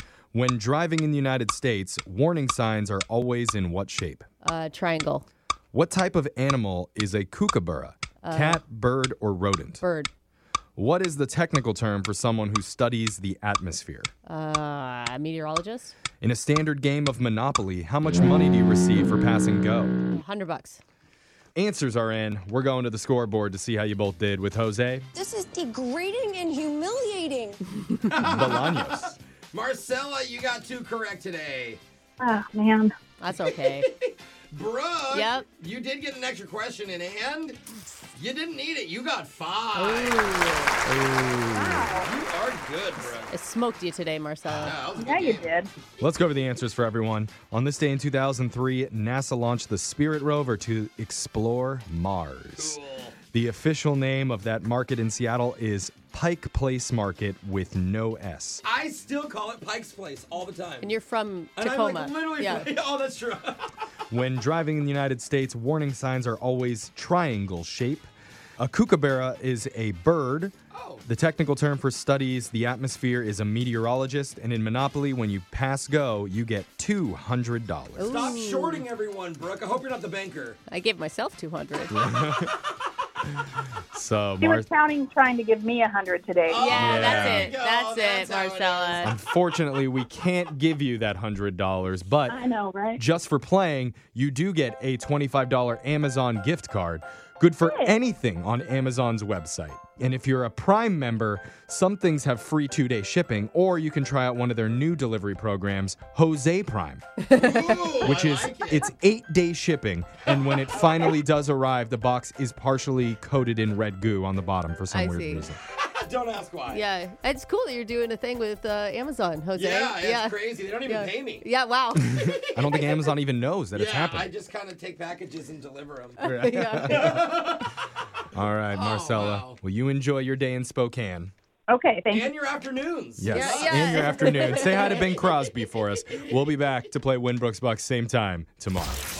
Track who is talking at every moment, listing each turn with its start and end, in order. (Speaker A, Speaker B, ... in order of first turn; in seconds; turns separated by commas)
Speaker A: 0.3-4.2, Speaker B: 4.4-5.2, Speaker A: 5.7-9.8, Speaker B: 8.2-8.6, Speaker B: 9.8-10.1, Speaker A: 10.8-14.1, Speaker B: 14.2-15.9, Speaker A: 16.2-20.0, Speaker B: 20.1-20.8, Speaker A: 21.5-25.1, Speaker C: 25.1-27.6, Speaker D: 28.1-31.8, Speaker A: 28.2-29.1, Speaker E: 32.2-32.9, Speaker B: 33.2-33.9, Speaker D: 33.3-37.6, Speaker B: 35.1-35.5, Speaker D: 38.1-40.3, Speaker B: 39.7-40.8, Speaker A: 40.8-41.9, Speaker E: 41.5-42.1, Speaker D: 42.0-43.4, Speaker B: 43.3-44.8, Speaker D: 44.5-45.6, Speaker E: 45.0-45.7, Speaker A: 46.0-52.8, Speaker D: 52.5-53.1, Speaker A: 53.3-58.6, Speaker D: 58.6-61.0, Speaker B: 60.8-62.7, Speaker D: 61.5-63.7, Speaker A: 64.1-68.1, Speaker A: 68.6-70.5, Speaker D: 70.7-71.0, Speaker A: 71.0-78.2, Speaker B: 78.0-78.8, Speaker D: 78.0-80.6, Speaker B: 80.7-82.0, Speaker A: 81.9-82.5, Speaker A: 83.9-84.7, Speaker E: 84.4-86.8, Speaker D: 86.5-89.1, Speaker B: 86.5-89.1, Speaker A: 86.8-87.5, Speaker A: 89.0-92.4, Speaker E: 92.3-93.0, Speaker A: 93.0-107.0, Speaker E: 97.7-97.9, Speaker B: 107.3-108.1, Speaker D: 107.3-108.9, Speaker A: 108.0-115.6, Speaker D: 110.2-110.6, Speaker B: 114.9-115.5, Speaker D: 115.7-116.8, Speaker B: 116.7-122.2, Speaker D: 119.5-121.5, Speaker D: 122.0-123.1, Speaker A: 122.1-124.3, Speaker D: 123.7-126.2, Speaker B: 126.2-127.5, Speaker A: 126.2-127.3, Speaker D: 126.8-127.7, Speaker A: 128.3-131.3, Speaker D: 128.7-129.6, Speaker E: 131.7-132.3, Speaker D: 132.1-135.2, Speaker A: 133.2-139.0, Speaker B: 133.3-135.0